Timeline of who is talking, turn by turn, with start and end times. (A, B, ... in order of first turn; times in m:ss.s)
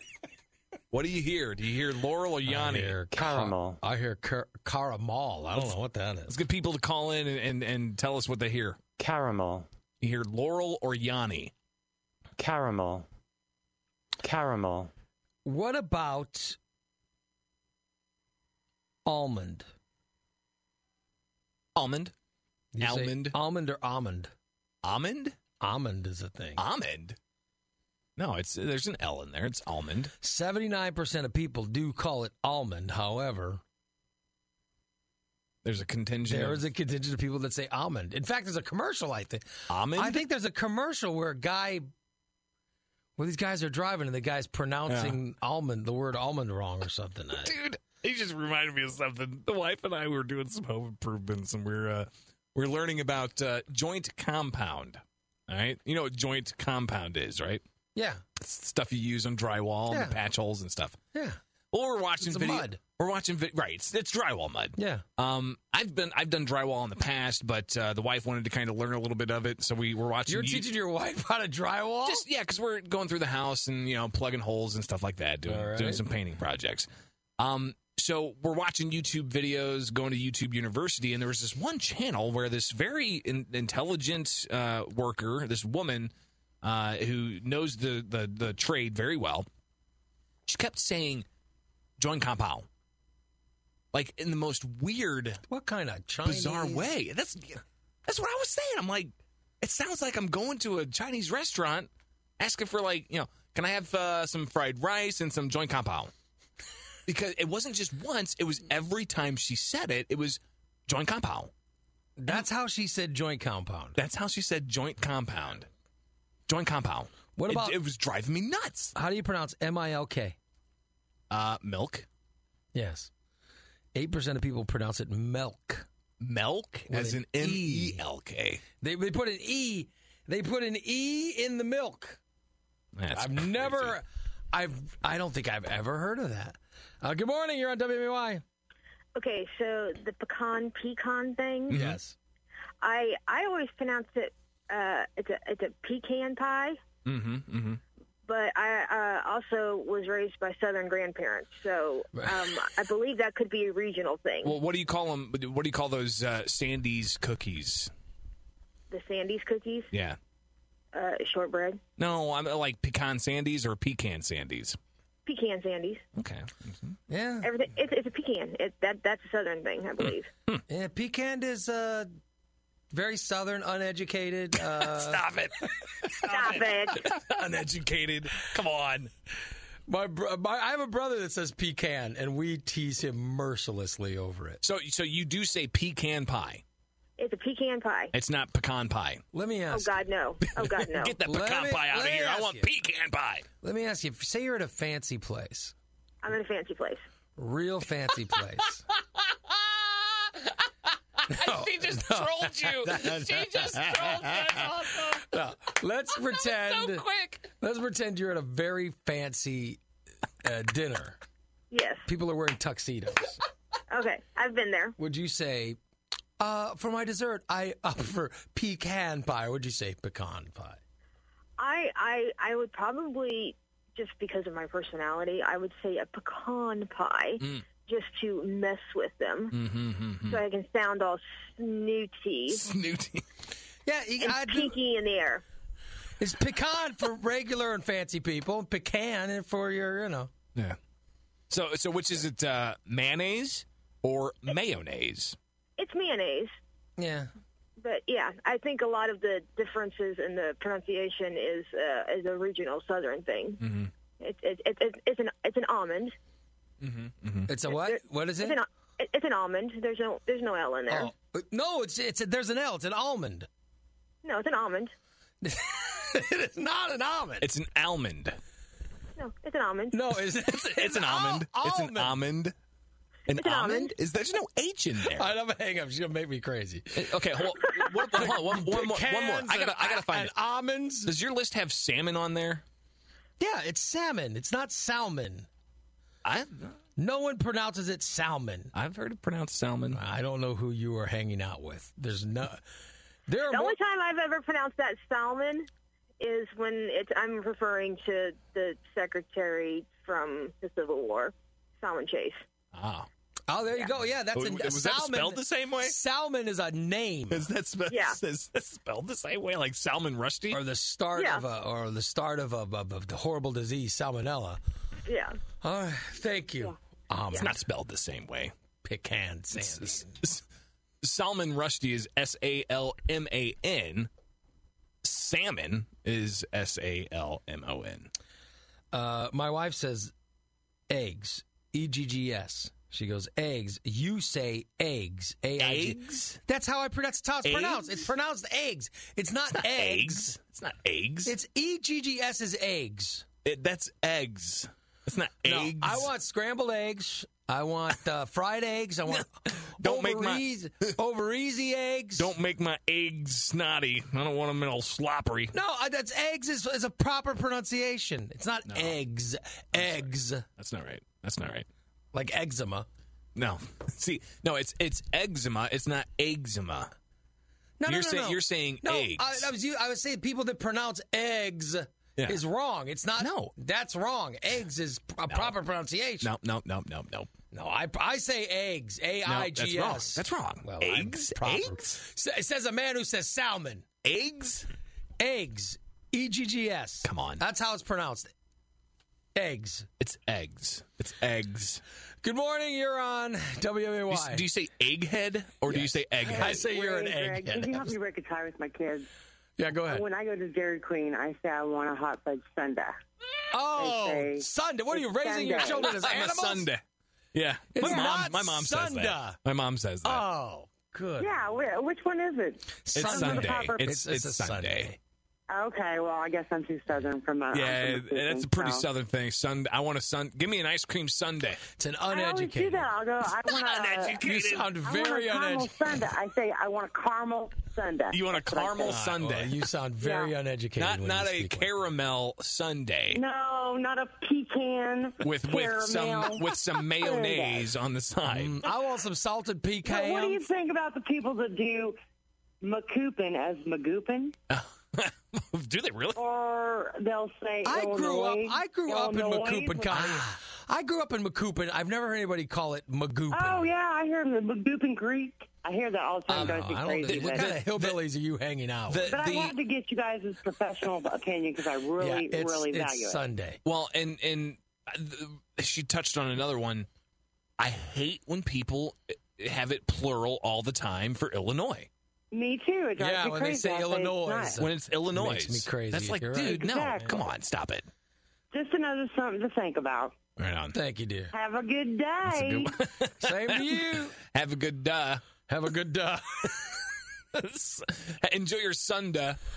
0:00.9-0:03.0 A
0:02.4-0:06.4 B
0:03.1-0:03.8 C
0:06.3-0:08.8 A
0:09.0-0:09.7 C
0:10.0-0:11.5 A
0:12.4-0:13.1 C
0:14.2-0:14.9 C
0:15.4-0:16.6 B
0:19.0-0:19.7 B
0:21.7-0:22.1 A
0:22.7-0:24.3 B
0:22.8-0:23.4 A
0:24.8-0:25.4 A
0:25.6-0:26.6 B
0:26.6-0:27.2 A
0:28.2-0:30.1 A
0:30.2-0:33.6 B
0:35.6-0:36.6 A
0:36.3-0:41.9 B
0:39.7-0:40.2 A
0:43.2-0:47.5 B
0:44.9-0:45.2 A
0:47.4-0:57.6 A
0:57.9-0:58.2 B
0:58.4-1:01.0 A
0:59.9-1:00.2 B
1:01.1-1:01.4 B
1:01.7-1:10.7 A
1:02.2-1:02.8 B
1:04.8-1:05.0 B
1:10.3-1:12.2 B
1:12.0-1:16.9 A
1:15.4-1:16.0 B
1:17.4-1:26.1 A
1:26.6-1:29.5 A
1:30.5-1:31.2 A
1:32.0-1:32.7 A
1:33.9-1:35.4 A
1:35.5-1:36.9 B
1:36.2-1:46.1 A
1:47.1-1:51.5 A
1:52.2-1:54.0 B
1:54.0-1:55.7 A
1:56.5-1:58.9 A
1:57.3-1:57.8 B
1:58.9-2:00.4 B
2:01.3-2:02.0 A
2:02.7-2:03.1 B
2:03.9-2:05.9 B
2:06.2-2:08.6 A
2:06.9-2:08.0 B
2:08.8-2:12.2 B
2:13.0-2:13.9 A
2:13.1-2:18.4 B
2:19.2-2:21.7 D
2:21.7-2:22.0 A
2:21.7-2:22.2 B
2:22.8-2:26.8 D
2:27.0-2:27.8 A
2:28.2-2:34.5 D
2:34.4-2:37.9 A
2:38.9-2:39.9 D
2:39.9-2:40.2 A
2:40.9-2:41.8 D
2:42.0-2:44.8 A
2:45.2-2:46.0 D
2:46.1-2:47.0 A
2:47.1-2:47.5 B
2:47.4-2:50.3 D
2:50.7-2:52.1 B
2:52.9-2:55.2 B
2:54.6-2:59.1 A
2:56.2-2:57.1 D
2:59.9-3:04.6 B
3:04.6-3:06.6 A
3:07.2-3:08.1 D
3:08.1-3:09.2 A
3:09.3-3:09.9 B
3:09.7-3:11.2 D
3:10.5-3:13.4 A
3:11.2-3:12.7 B
3:13.6-3:15.7 B
3:16.2-3:17.0 D
3:17.4-3:18.8 B
3:19.3-3:20.5 A
3:21.2-3:25.3 A
3:21.3-3:29.8 B
3:26.2-3:27.5 A
3:30.4-3:31.2 B
3:31.7-3:32.0 D
3:32.0-3:33.4 B
3:33.9-3:34.9 D
3:35.0-3:35.8 B
3:36.4-3:40.8 B
3:41.6-3:49.6 D
3:47.4-3:47.6 A
3:49.5-3:50.4 A
3:50.3-3:52.6 D
3:52.5-3:53.2 A
3:53.8-3:54.8 B
3:54.2-3:55.4 D
3:56.2-4:00.3 B
4:01.5-4:05.4 A
4:05.8-4:06.5 D
4:07.0-4:07.3 B
4:07.8-4:13.6 D
4:13.6-4:13.9 A
4:14.2-4:16.1 D
4:16.8-4:17.5 A
4:17.5-4:18.6 B
4:17.7-4:21.1 D
4:20.9-4:23.5 B
4:24.2-4:24.9 D
4:25.4-4:27.5 B
4:27.4-4:28.4 A
4:29.2-4:30.0 D
4:29.9-4:32.2 B
4:30.2-4:32.5 A
4:33.3-4:35.3 A
4:33.3-4:33.9 D
4:35.0-4:37.1 B
4:36.9-4:40.3 A
4:38.1-4:41.1 B
4:41.0-4:42.6 A
4:43.4-4:45.5 B
4:46.2-4:46.8 A
4:47.0-4:48.7 B
4:48.7-4:50.0 A
4:49.9-4:52.6 B
4:53.3-4:53.8 B
4:53.4-4:55.7 D
4:56.2-5:02.4 D
5:02.7-5:03.1 A
5:03.5-5:07.5 B
5:04.3-5:05.9 A
5:07.3-5:10.6 A
5:07.9-5:08.2 D
5:10.5-5:14.6 B
5:11.2-5:11.4 D
5:15.0-5:15.4 D
5:15.6-5:17.6 B
5:17.3-5:18.5 A
5:18.8-5:20.2 B
5:19.5-5:20.4 A
5:21.0-5:24.1 A
5:25.0-5:28.1 A
5:28.9-5:30.1 B
5:30.9-5:40.3 B
5:35.6-5:36.4 A
5:37.4-5:38.1 A
5:39.5-5:41.3 A
5:41.2-5:43.2 B
5:43.4-5:46.1 A
5:45.4-5:52.3 B
5:49.1-5:50.9 A
5:52.2-5:55.5 A
5:55.5-6:00.4 B
5:58.6-5:59.0 A
5:59.7-6:01.7 A
6:02.1-6:02.9 B
6:03.3-6:06.9 A
6:07.8-6:16.3 B
6:07.8-6:09.5 A
6:13.2-6:13.5 A
6:15.3-6:15.6 A
6:16.2-6:17.3 A
6:17.5-6:23.8 B
6:19.2-6:22.0 A
6:24.0-6:24.7 A
6:25.2-6:28.3 B
6:27.0-6:27.4 A
6:29.4-6:29.9 B
6:30.0-6:31.8 A
6:32.2-6:34.4 B
6:34.1-6:36.7 A
6:35.7-6:38.0 B
6:36.2-6:39.1 E
6:39.6-6:40.1 B
6:39.9-6:43.0 E
6:43.5-6:46.7 B
6:43.7-6:45.9 E
6:45.8-6:46.8 A
6:47.3-6:50.2 A
6:47.7-6:49.4 B
6:50.0-6:51.4 B
6:51.2-6:53.8 E
6:52.8-6:55.0 B
6:52.9-6:54.9 A
6:55.5-6:58.8 E
6:57.5-7:01.6 A
7:01.7-7:02.9 B
7:02.1-7:04.2 E
7:03.4-7:04.8 A
7:04.2-7:06.0 B
7:04.8-7:09.0 E
7:08.1-7:09.5 A
7:08.9-7:11.9 B
7:10.0-7:10.3 E
7:10.8-7:13.2 A
7:13.1-7:17.7 E
7:15.2-7:18.6 A
7:18.3-7:20.4 B
7:19.8-7:22.0 E
7:22.6-7:24.3 E
7:24.5-7:26.2 A
7:26.2-7:30.2 E
7:27.6-7:33.7 B
7:29.9-7:30.3 A
7:33.3-7:37.5 E
7:36.3-7:39.1 B
7:36.4-7:38.0 A
7:38.9-7:39.6 A
7:39.1-7:43.2 E
7:42.0-7:43.6 B
7:43.6-7:46.9 A
7:47.6-7:51.9 A
7:52.3-7:54.6 E
7:53.0-7:56.7 B
7:54.6-7:57.9 A
7:56.4-7:57.1 E
7:58.5-8:00.2 E
8:00.4-8:00.7 A
8:00.7-8:01.3 B
8:01.3-8:02.7 E
8:02.2-8:05.2 A
8:03.0-8:04.2 B
8:05.5-8:06.6 B
8:07.3-8:09.4 A